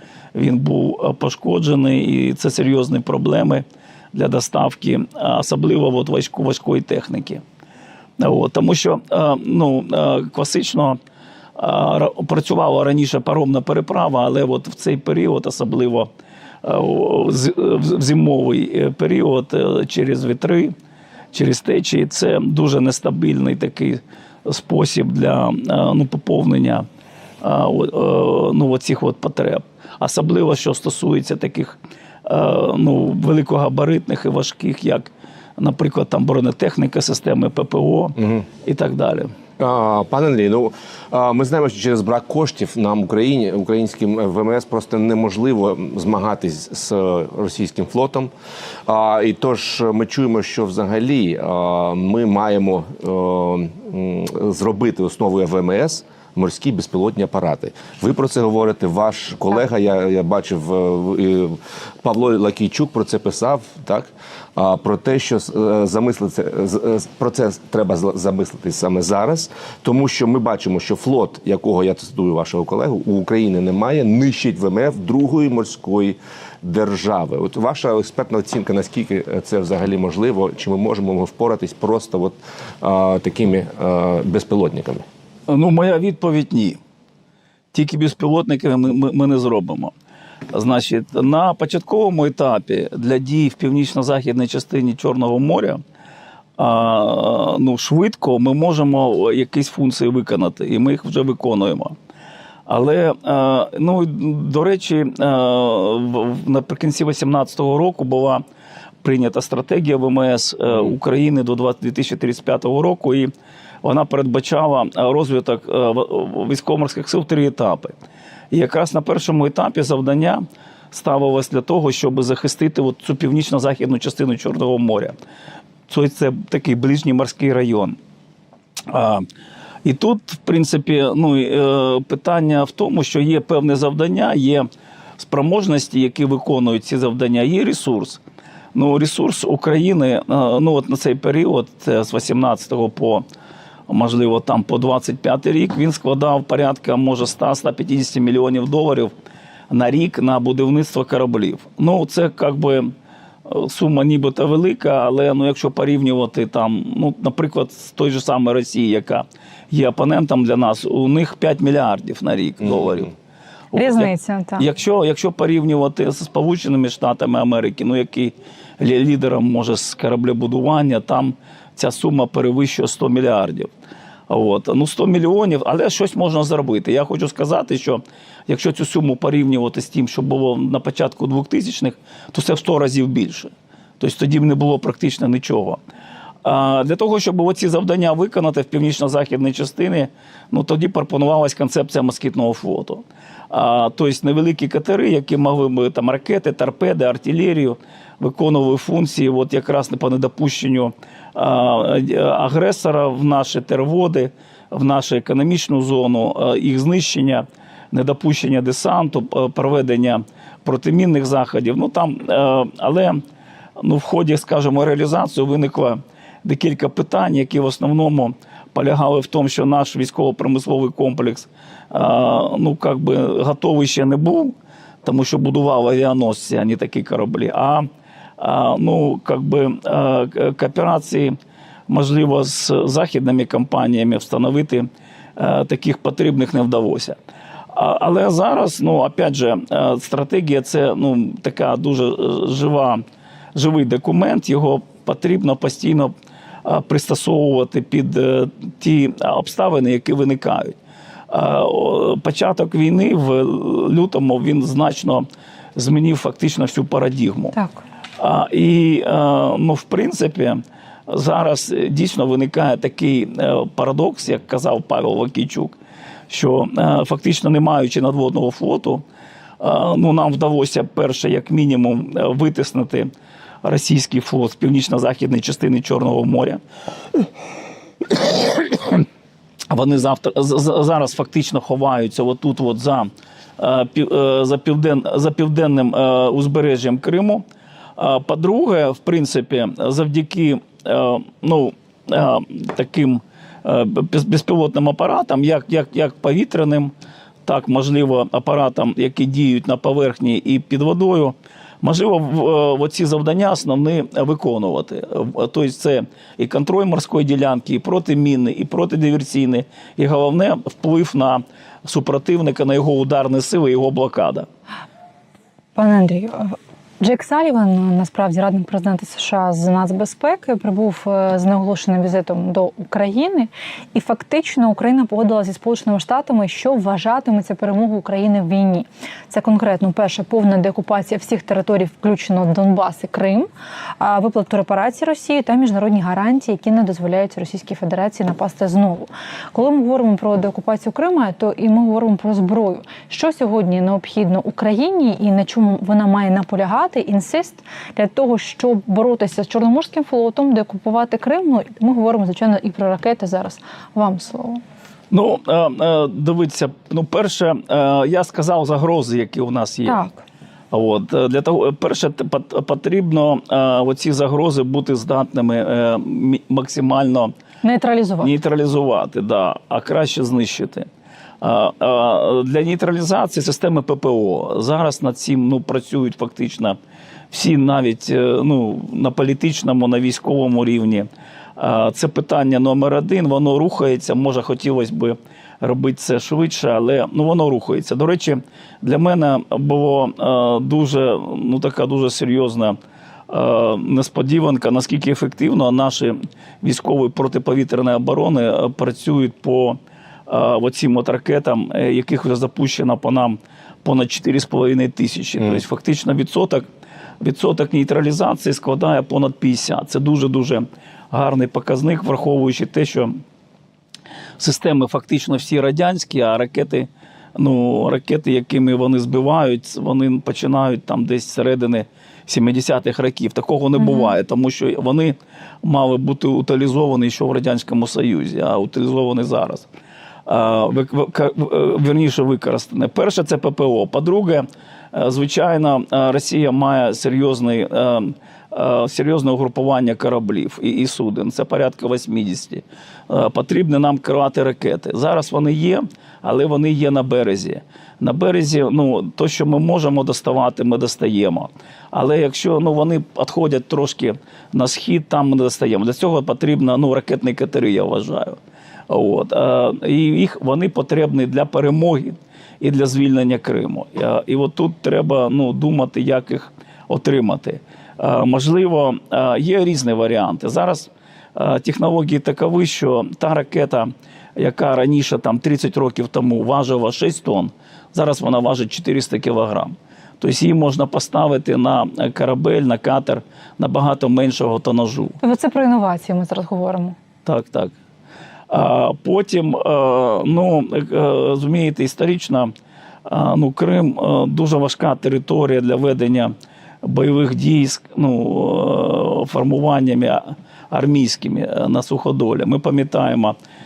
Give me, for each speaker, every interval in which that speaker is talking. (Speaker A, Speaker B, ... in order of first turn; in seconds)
Speaker A: 0.3-7.4, 8.2-11.0, 11.6-16.1, 16.6-20.7, 21.3-26.9, 27.4-39.3, 85.5-86.8, 87.7-89.9, 90.5-95.8, 96.6-101.9, 102.7-108.4, 109.0-113.3, 113.8-118.0, 118.5-125.2, 125.9-128.0, 128.9-129.2, 129.8-138.2, 138.7-143.2, 143.9-149.1, 149.7-152.9, 153.4-163.1, 163.7-173.7, 174.3-185.8, 186.4-213.2, 213.8-227.9, 228.4-231.4, 231.9-237.2, 237.7-243.0, 243.5-246.1, 246.6-250.8, 251.3-257.5, 258.2-265.7, 266.3-269.0, 269.6-273.1, 273.6-276.6, 278.1-279.1, 279.7-287.4, 288.0-296.9, 297.4-314.5, 355.1-360.0, 360.7-367.3, 368.2-370.9, 371.4-376.8, 377.3-392.8, 393.3-406.6, 407.2-413.2, 414.4-429.6, 430.2-485.2, 487.2-487.7, 488.5-492.5, 493.1-503.4
Speaker B: 38.2-38.4, 39.6-48.3, 48.9-85.0, 162.7-163.0
Speaker C: 163.8-164.7, 257.5-257.8, 315.8-333.5, 334.0-354.6, 359.9-360.2, 367.6-368.3, 423.8-424.1, 485.2-486.9